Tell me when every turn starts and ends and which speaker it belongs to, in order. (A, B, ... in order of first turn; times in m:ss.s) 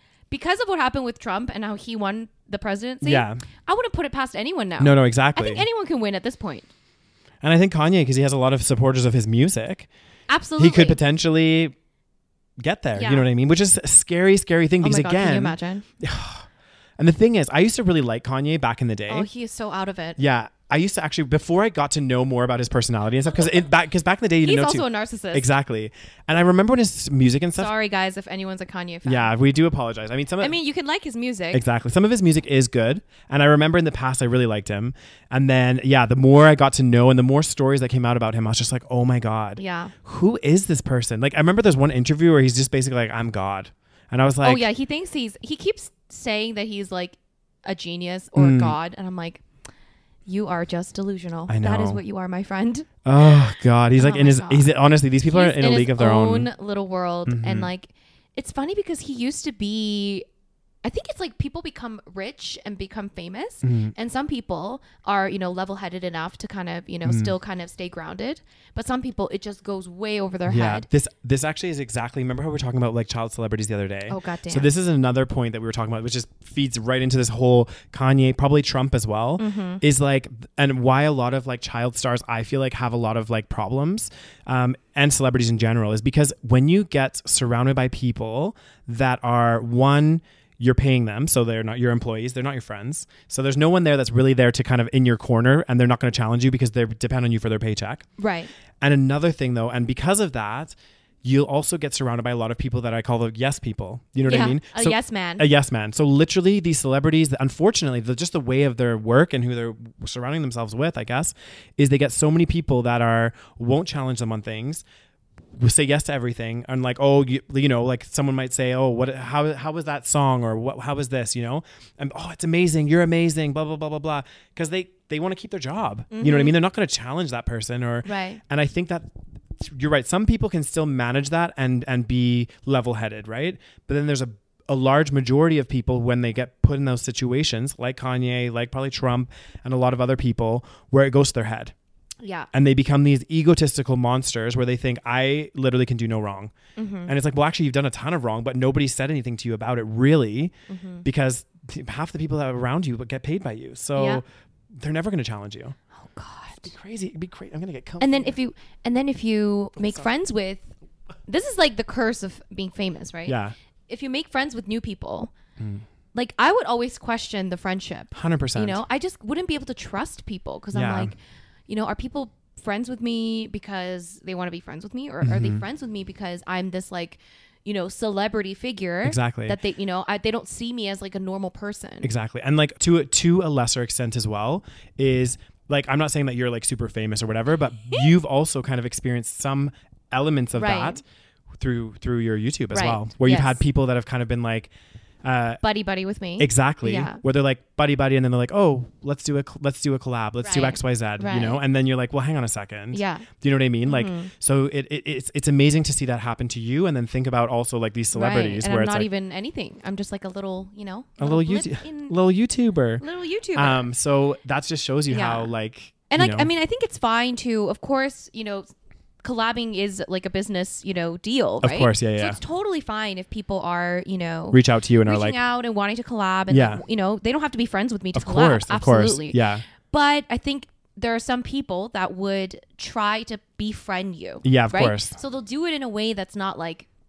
0:00.3-0:06.7 A
0:03.0-0:03.4 B
0:04.8-0:05.7 B
0:07.4-0:09.9 B
0:10.3-0:11.0 A
0:10.6-0:11.8 B
0:12.6-0:16.5 B
0:13.0-0:13.2 A
0:14.8-0:15.8 A
0:17.0-0:19.3 B
0:19.1-0:20.2 A
0:20.2-0:27.7 B
0:24.4-0:25.5 A
0:27.6-0:29.3 A
0:29.0-0:30.6 B
0:30.4-0:31.6 A
0:31.5-0:44.7 B
0:39.6-0:39.9 A
0:44.4-0:49.4 A
0:48.4-0:48.8 B
0:50.3-0:52.9 A
0:51.5-0:52.0 B
0:53.0-0:56.5 B
0:54.0-1:00.3 A
0:57.3-0:57.7 B
1:00.8-1:10.9 A
1:03.6-1:03.9 B
1:07.0-1:07.3 B
1:10.5-1:38.1 B
1:14.1-1:14.7 A
1:19.4-1:19.8 A
1:38.2-1:38.5 A
1:38.8-1:54.8 B
1:44.2-1:45.4 A
1:55.6-2:21.7 B
2:06.1-2:06.6 A
2:08.0-2:08.4 A
2:22.2-2:22.5 A
2:22.5-2:26.5 B
2:26.8-2:27.1 A
2:27.1-2:30.5 B
2:30.7-2:31.0 A
2:31.0-2:35.8 B
2:34.0-2:34.2 A
2:35.9-2:36.7 A
2:36.6-2:38.4 B
2:38.0-2:40.7 A
2:41.3-2:43.4 A
2:43.3-2:43.5 B
2:43.9-2:45.3 A
2:45.6-2:45.8 B
2:46.1-2:51.2 A
2:48.1-2:48.8 B
2:50.7-2:51.1 B
2:51.7-3:02.1 A
2:55.2-2:55.6 B
2:59.0-2:59.6 B
3:02.0-3:11.0 B
3:10.6-3:11.0 A
3:11.6-3:14.7 B
3:12.7-3:13.6 A
3:15.2-3:15.6 B
3:15.6-3:17.2 A
3:16.4-3:29.1 B
3:20.4-3:21.6 A
3:22.9-3:23.3 A
3:23.9-3:24.3 A
3:28.1-3:32.2 A
3:31.2-3:33.0 B
3:33.0-3:33.9 A
3:33.6-3:36.5 B
3:35.1-3:35.5 A
3:36.1-3:38.7 A
3:39.2-3:56.9 A
3:41.6-3:42.4 B
3:44.5-3:45.4 B
3:46.5-3:46.8 B
3:48.2-3:49.6 B
3:54.4-3:55.2 B